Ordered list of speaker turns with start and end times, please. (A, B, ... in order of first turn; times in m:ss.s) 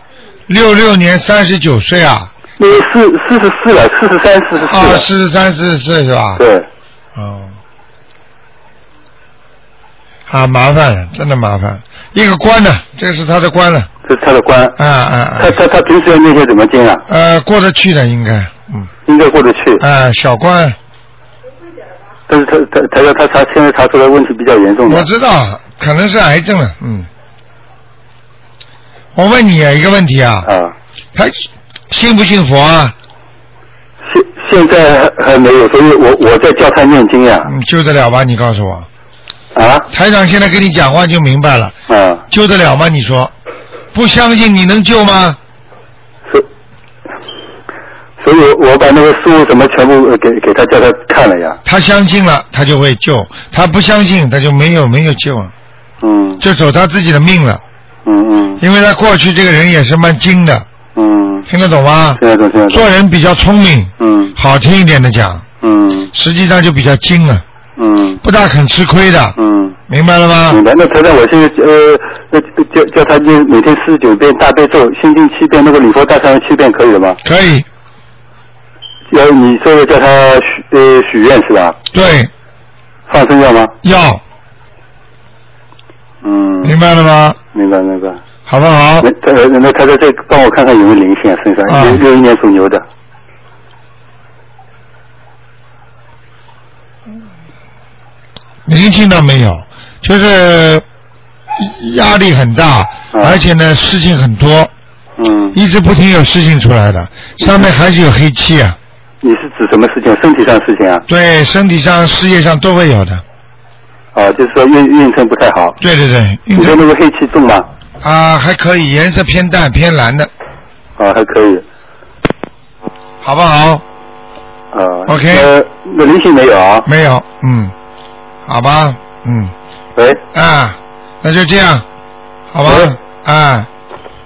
0:00.5-0:02.3 A
0:02.6-0:05.1 B
0:04.6-0:06.4 A
0:06.4-0:06.6 B
0:07.1-0:07.5 A
0:10.3-0:13.9 A
0:14.0-0:14.8 B
0:14.8-0:15.6 A
0:15.4-0:17.0 B
0:17.1-0:18.9 A
0:19.0-0:19.8 B
0:19.8-0:20.8 A
0:22.3-0:25.1 B
0:24.9-0:27.1 A
0:29.1-0:30.5 A
0:30.4-0:30.7 B
0:31.1-0:32.9 A
0:34.0-0:37.5 B
0:37.4-0:38.9 A
0:39.5-0:39.9 B
0:39.9-0:41.8 A
0:41.9-0:42.2 B
0:42.3-0:43.3 A
0:43.9-0:45.4 A
0:48.2-0:51.6 B
0:51.6-0:55.5 A
0:56.0-0:56.4 B
0:56.4-0:57.6 A
0:58.0-0:58.6 B
0:58.6-1:00.6 A
1:00.9-1:01.5 B
1:01.5-1:05.4 A
1:02.2-1:02.8 B
1:04.0-1:04.4 B
1:05.6-1:06.1 B
1:06.1-1:07.4 A
1:07.8-1:08.2 B
1:08.2-1:09.4 A
1:09.4-1:09.8 B
1:09.9-1:10.6 A
1:10.5-1:17.2 B
1:17.2-1:17.6 A
1:19.1-1:21.8 B
1:21.9-1:22.3 A
1:23.1-1:23.7 B
1:23.8-1:24.2 A
1:26.2-1:26.8 B
1:26.6-1:27.4 A
1:27.5-1:28.2 B
1:28.5-1:29.1 A
1:29.0-1:32.8 B
1:31.7-1:32.0 A
1:38.6-1:40.8 A
1:41.6-1:44.7 A
1:43.1-1:43.4 B
1:45.2-1:45.6 B
1:45.5-1:48.8 A
1:49.2-1:51.0 B
1:51.1-1:53.2 A
1:54.1-1:55.8 B
1:55.8-1:56.8 A
1:56.6-1:57.7 B
1:58.0-2:00.3 A
2:01.0-2:01.6 B
2:03.2-2:03.8 A
2:04.7-2:06.9 B
2:05.1-2:05.5 A
2:06.8-2:07.7 A
2:08.4-2:09.5 A
2:10.3-2:11.8 A
2:12.5-2:13.7 A
2:12.6-2:12.9 B